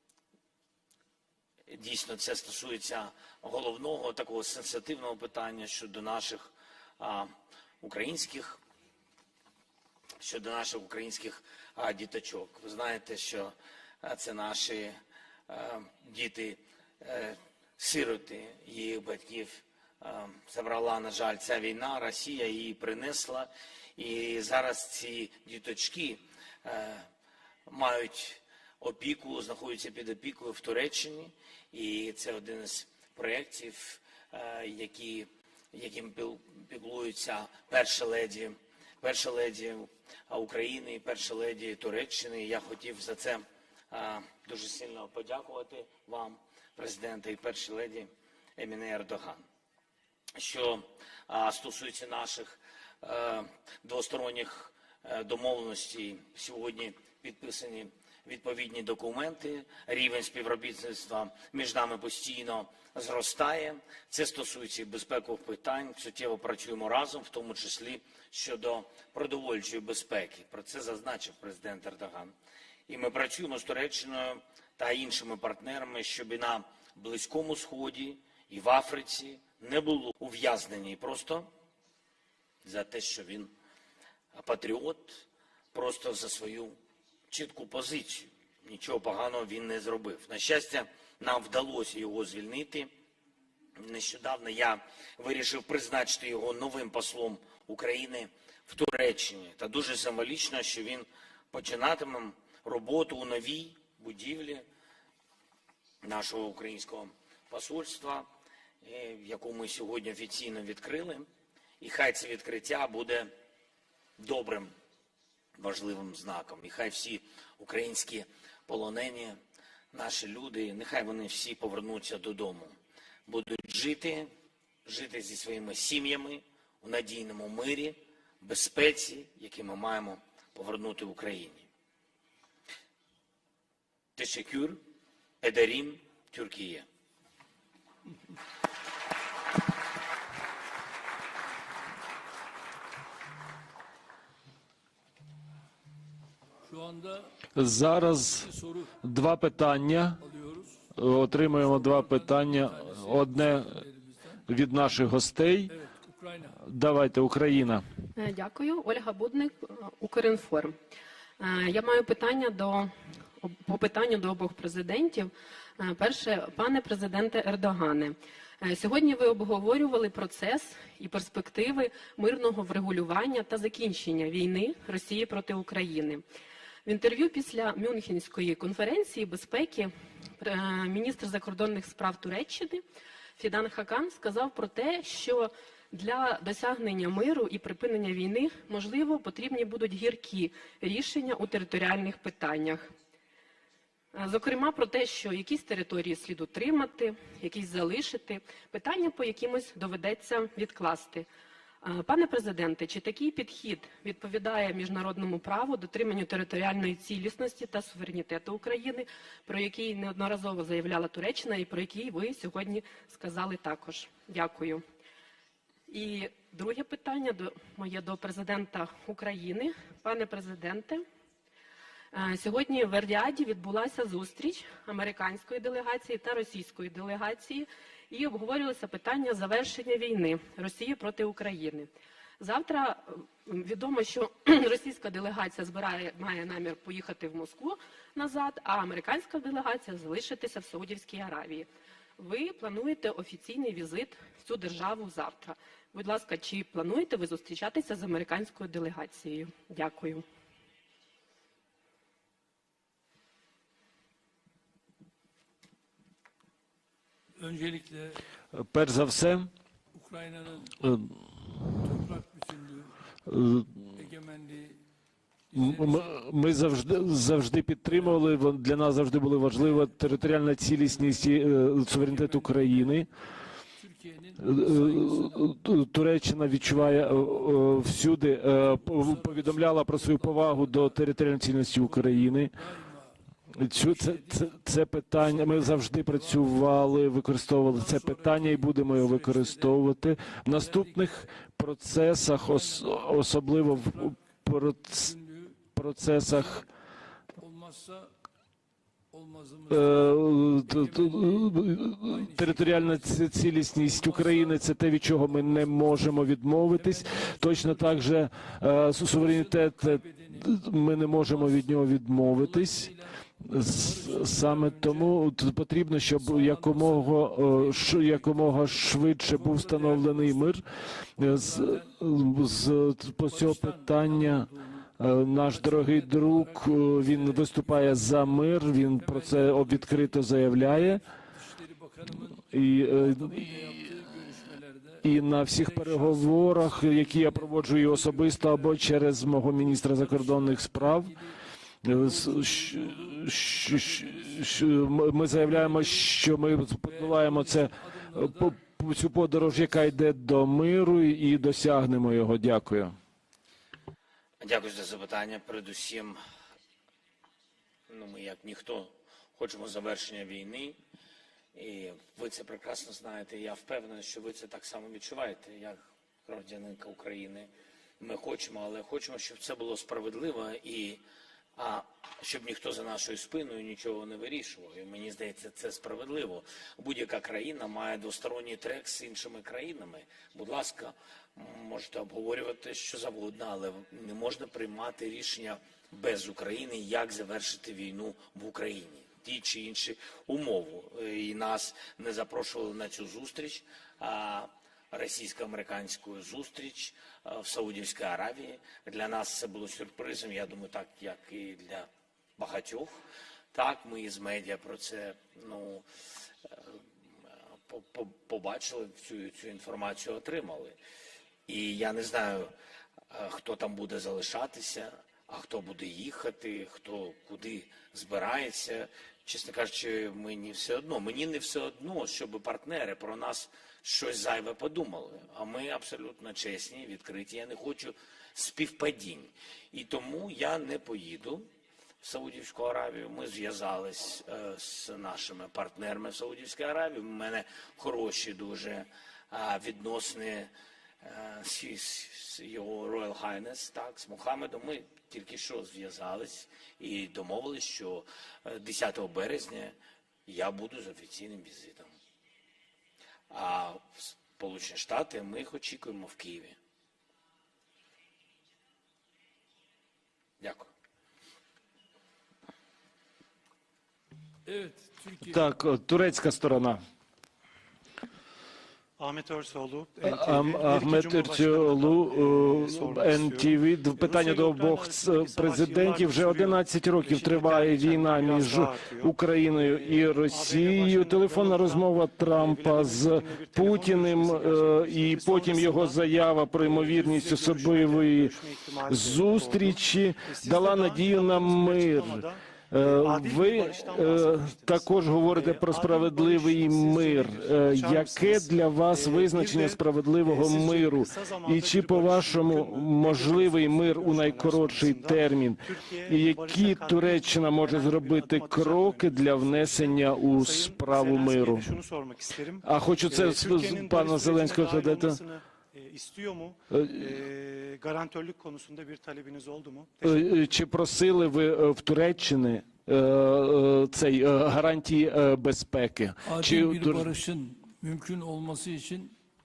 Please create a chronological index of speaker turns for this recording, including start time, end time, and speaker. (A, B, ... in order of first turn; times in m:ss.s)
0:01.7-0:08.6 A
0:10.2-0:15.0 A
0:15.5-0:27.1 A
0:27.7-0:49.4 A
0:50.4-1:12.3 A
1:12.9-1:21.5 A
1:22.6-1:23.5 A
1:24.3-1:26.8 A
1:27.3-1:32.9 A
1:33.8-1:44.7 A
1:46.0-1:48.3 A
1:48.8-1:51.3 A
1:51.8-1:53.3 A
1:54.2-1:54.7 A
1:55.5-1:59.4 A
1:59.9-2:02.7 A
2:03.2-2:04.3 A
2:04.8-2:11.7 A
2:14.2-2:14.8 A
2:15.4-2:16.8 A
2:26.6-2:27.4 B
2:27.5-2:28.5 C
2:28.3-2:28.9 B
2:29.0-2:30.2 C
2:30.2-2:30.8 B
2:31.0-2:33.8 C
2:31.6-2:34.4 B
2:34.5-2:35.7 C
2:35.7-2:36.6 B
2:36.6-2:37.8 C
2:38.2-2:40.8 D
2:41.4-2:56.2 D
2:56.8-3:02.8 D
3:03.4-3:12.9 D
3:14.1-3:21.2 D
3:21.8-3:34.8 D
3:35.9-3:41.0 D
3:42.1-3:51.9 D
3:52.4-4:10.2 D
4:17.4-4:18.2 B
4:18.5-4:19.5 C
4:19.9-4:20.8 B
4:20.8-4:21.2 C
4:21.8-4:22.9 B
4:23.3-4:23.8 C
4:23.9-4:24.8 B
4:25.5-4:26.2 B
4:25.5-4:33.1 C
4:30.9-4:31.4 B
4:31.9-4:33.0 B
4:33.8-4:35.5 B
4:34.4-4:42.5 C
4:38.5-4:41.0 B
4:41.8-4:43.2 B
4:43.6-4:55.1 C
4:43.7-4:44.5 B
4:45.2-4:46.8 B
4:47.7-4:49.8 B
4:50.5-4:51.3 B
4:52.4-4:54.3 B
4:54.8-4:55.6 B
4:55.7-4:56.7 C
4:57.4-4:58.1 B
4:59.1-5:06.1 B
4:59.7-5:12.9 C
5:06.7-5:08.1 B
5:09.1-5:10.5 B
5:11.0-5:15.2 B
5:13.4-5:20.6 C
5:16.1-5:20.5 B
5:21.2-5:21.9 B
5:21.2-5:24.5 C
5:23.3-5:38.8 B
5:25.0-5:31.0 C
5:32.5-5:33.9 C
5:35.0-5:41.1 C
5:39.5-5:44.6 B
5:41.8-5:53.0 C
5:45.3-5:46.2 B
5:46.7-5:48.6 B
5:54.4-5:56.2 A
5:57.9-6:00.8 A
6:01.5-6:11.0 A
6:11.6-6:43.0 A
6:43.5-6:46.8 A
6:47.7-6:50.8 A
6:51.4-6:52.5 A
6:53.1-7:11.5 A
7:12.0-7:31.9 A
7:33.3-7:36.6 A
7:40.4-7:40.7 A
7:44.4-7:45.4 B
7:45.2-7:46.8 C
7:49.0-8:40.3 E
7:50.0-8:08.3 C
8:08.9-8:31.7 C
8:32.6-8:35.2 C
8:36.7-8:37.1 C
8:40.0-8:47.1 C
8:46.2-8:49.1 B